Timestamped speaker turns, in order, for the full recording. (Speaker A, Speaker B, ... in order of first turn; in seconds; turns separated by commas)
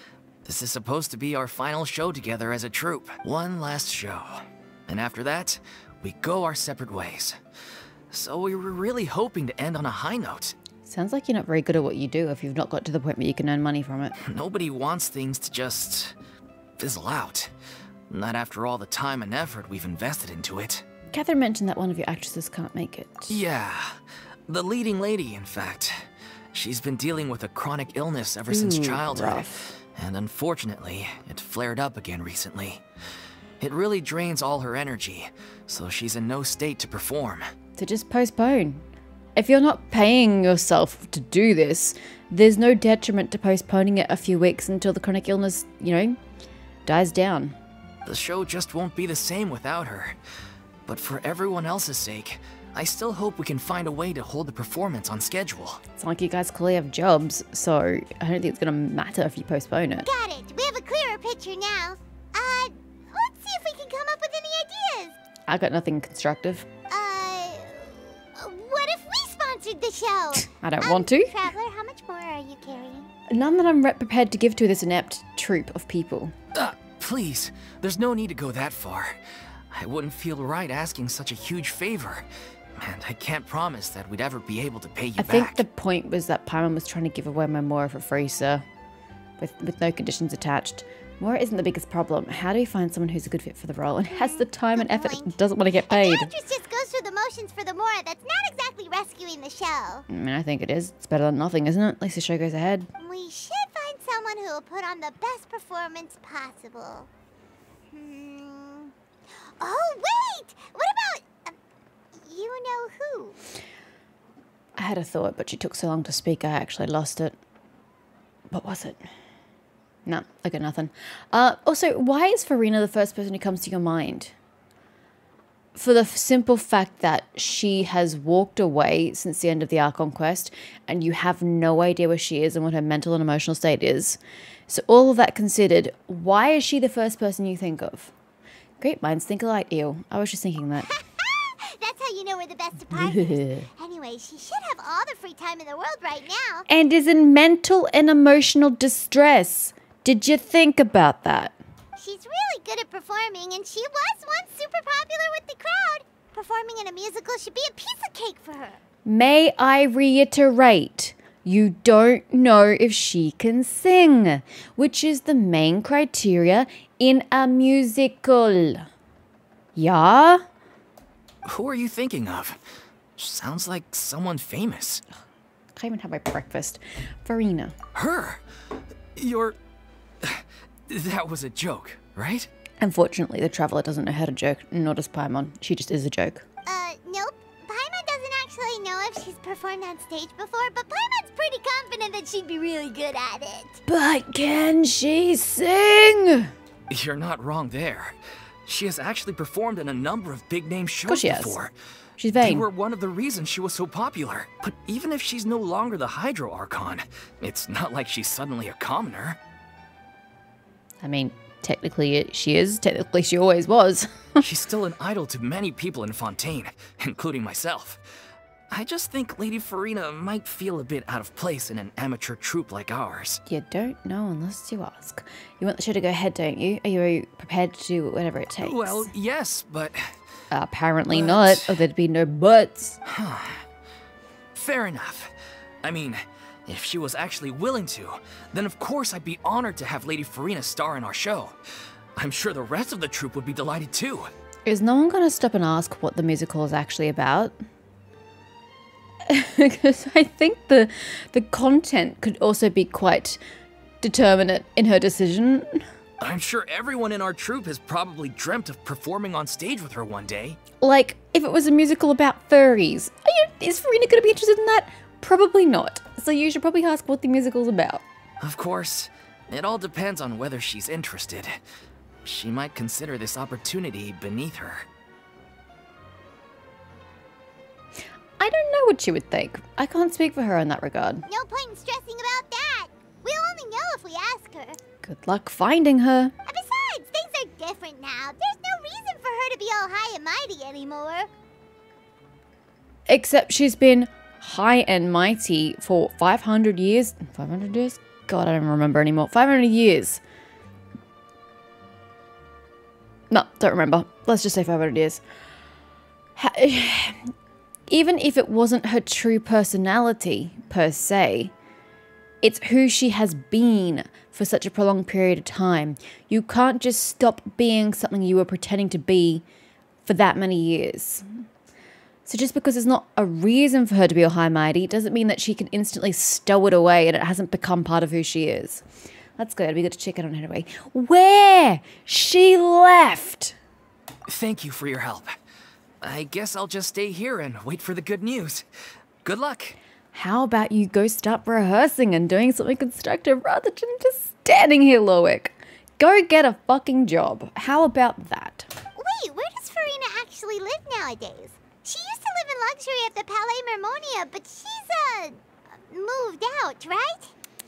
Speaker A: 0.5-7.4, Speaker A: 8.1-10.6, Speaker B: 10.8-14.2, Speaker A: 14.2-16.1, Speaker A: 16.8-17.5, Speaker A: 18.1-20.9, Speaker B: 21.1-23.4, Speaker A: 23.3-32.8, Speaker B: 28.5-29.7, Speaker A: 33.6-37.5, Speaker B: 37.8-38.8, Speaker B: 39.4-46.2, Speaker B: 46.9-47.6, Speaker A: 48.0-50.2, Speaker A: 50.9-55.8, Speaker B: 56.0-60.1, Speaker C: 60.1-65.2, Speaker B: 65.5-66.7, Speaker C: 66.9-73.1, Speaker B: 70.4-71.5, Speaker B: 73.3-76.3, Speaker A: 76.5-79.2, Speaker A: 79.7-85.7, Speaker B: 85.2-88.7, Speaker B: 89.4-96.3, Speaker C: 94.1-95.4, Speaker C: 95.9-100.1, Speaker B: 100.1-102.9, Speaker C: 103.0-107.1, Speaker C: 107.9-108.9, Speaker C: 109.6-111.5, Speaker C: 112.2-113.4, Speaker B: 114.8-117.4, Speaker B: 118.5-119.1, Speaker B: 120.1-124.3, Speaker B: 125.8-138.1, Speaker B: 138.8-140.9, Speaker C: 140.9-146.7, Speaker B: 142.9-143.7, Speaker B: 146.7-151.6, Speaker C: 152.0-158.8, Speaker B: 159.1-168.9, Speaker B: 169.8-170.4, Speaker A: 171.4-172.6, Speaker A: 173.2-175.0, Speaker B: 175.8-177.8, Speaker A: 177.9-178.4, Speaker A: 179.2-179.6, Speaker A: 180.2-182.5, Speaker B: 182.8-186.4, Speaker C: 186.7-193.8, Speaker B: 193.9-196.5, Speaker A: 196.9-201.7, Speaker B: 201.1-201.6, Speaker B: 202.2-202.7, Speaker A: 202.4-209.4, Speaker B: 211.0-214.4, Speaker A: 214.4-218.1, Speaker A: 218.7-223.4, Speaker B: 223.5-229.1, Speaker A: 228.6-230.2, Speaker B: 230.5-233.0, Speaker A: 231.1-231.8, Speaker A: 233.1-233.7, Speaker A: 234.5-241.6, Speaker A: 242.2-244.3, Speaker B: 244.7-247.5, Speaker B: 249.3-253.4, Speaker B: 254.0-255.9, Speaker A: 256.2-260.6, Speaker B: 260.8-268.0, Speaker A: 268.4-271.6, Speaker A: 272.2-274.9, Speaker B: 278.4-281.3, Speaker C: 281.3-284.8, Speaker B: 285.0-286.3, Speaker C: 286.5-291.3, Speaker B: 293.1-300.2, Speaker B: 303.3-305.2, Speaker B: 306.4-307.3, Speaker B: 307.9-311.5, Speaker B: 312.4-319.4, Speaker B: 320.0-321.3, Speaker B: 322.3-328.8, Speaker B: 329.4-333.6, Speaker A: 334.3-335.4, Speaker A: 336.0-338.7, Speaker A: 339.2-339.8, Speaker B: 340.1-348.7, Speaker C: 349.0-357.3